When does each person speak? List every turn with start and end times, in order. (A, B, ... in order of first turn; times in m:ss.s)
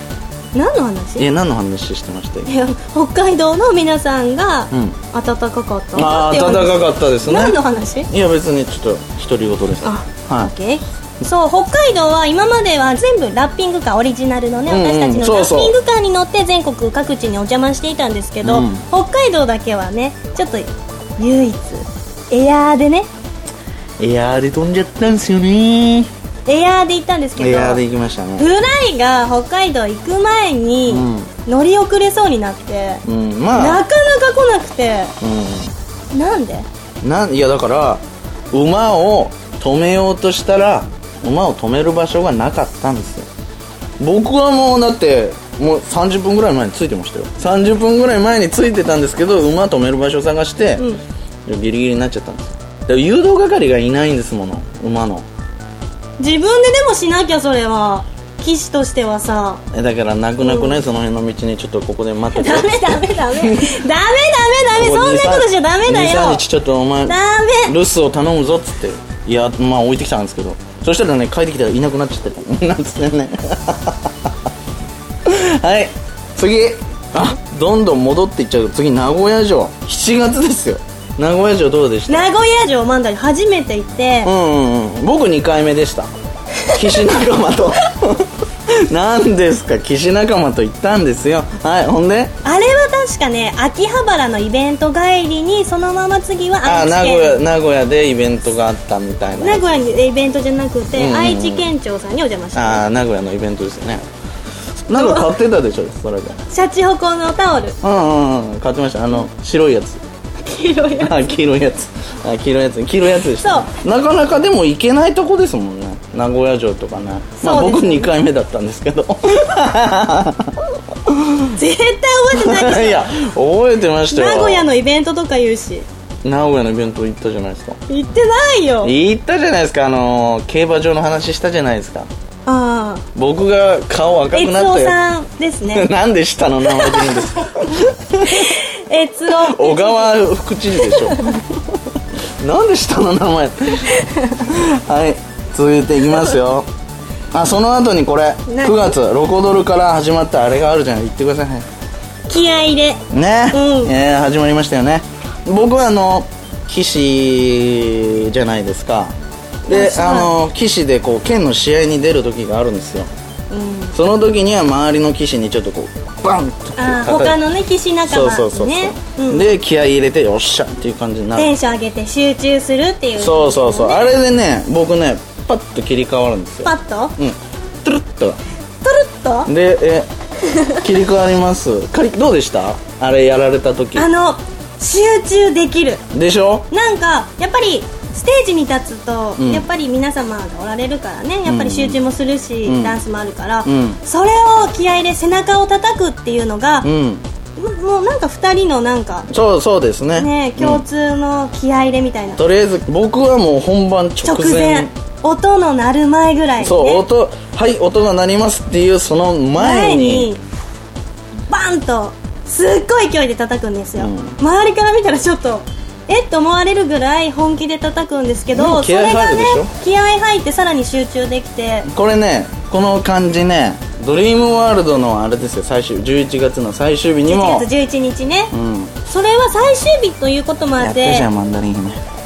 0:00.5-0:01.2 A
0:01.2-0:02.5 B
0:02.4-0:08.1 A
0:04.7-0:05.0 B
0:05.9-0:10.5 B
0:09.8-0:23.1 A
0:14.7-0:15.8 B
0:18.4-0:18.8 B
0:24.0-0:26.1 B
0:26.4-0:27.8 A
0:27.4-0:28.5 B
0:28.4-0:35.1 A
0:30.8-0:31.3 B
0:33.0-0:33.8 B
0:35.2-0:35.7 B
0:36.1-0:36.7 A
0:37.0-0:43.3 B
0:44.0-0:50.9 B
0:51.4-0:55.2 B
0:56.2-0:59.6 A
0:59.7-1:03.8 B
1:00.4-1:00.8 A
1:02.3-1:06.4 A
1:04.7-1:14.1 B
1:07.1-1:07.7 A
1:15.2-1:22.3 B
1:22.1-1:24.3 A
1:24.2-1:26.1 B
1:26.6-1:27.1 A
1:26.7-1:32.3 B
1:32.4-1:37.4 A
1:36.6-1:40.0 B
1:39.4-1:42.9 A
1:40.9-1:41.7 B
1:42.5-1:44.0 B
1:44.9-1:46.4 B
1:44.9-1:45.3 A
1:46.5-1:47.8 A
1:47.8-1:50.0 B
1:50.4-1:51.3 A
1:51.0-2:01.5 B
1:53.3-1:53.7 A
1:57.4-1:58.1 A
2:01.5-2:03.1 A
2:02.3-2:04.7 B
2:04.1-2:05.8 A
2:06.2-2:07.8 B
2:07.9-2:08.9 A
2:08.8-2:12.1 B
2:12.4-2:13.0 A
2:13.1-2:15.0 B
2:14.3-2:15.9 A
2:15.6-2:18.6 B
2:16.8-2:17.2 A
2:18.2-2:20.2 A
2:19.3-2:21.3 B
2:20.8-2:21.4 A
2:22.4-2:26.7 B
2:23.9-2:24.4 A
2:27.3-2:31.6 B
2:28.5-2:28.9 A
2:32.3-2:33.0 A
2:33.1-2:39.1 B
2:33.5-2:33.9 A
2:39.6-2:43.1 B
2:39.7-2:40.3 A
2:43.5-2:43.9 A
2:43.9-2:47.4 B
2:46.8-2:49.5 A
2:48.0-2:51.5 B
2:51.4-2:54.1 A
2:53.2-2:58.4 B
2:56.6-2:57.1 A
2:58.8-2:59.5 A
2:59.5-3:00.1 B
3:00.5-3:00.8 A
3:00.8-3:04.1 B
3:03.9-3:06.0 A
3:06.1-3:06.7 B
3:06.7-3:16.9 A
3:09.4-3:09.7 B
3:11.4-3:12.0 B
3:12.6-3:13.0 B
3:13.6-3:14.0 B
3:16.8-3:17.2 B
3:17.6-3:19.3 A
3:19.3-3:20.8 B
3:20.1-3:22.4 A
3:22.4-3:24.9 B
3:24.2-3:27.0 A
3:26.6-3:30.3 B
3:29.6-3:30.4 A
3:31.5-3:41.9 A
3:34.0-3:34.4 B
3:38.5-3:39.7 B
3:41.9-3:47.7 B
3:47.3-3:48.5 A
3:48.5-3:48.9 B
3:49.0-3:51.3 A
3:50.8-3:52.0 B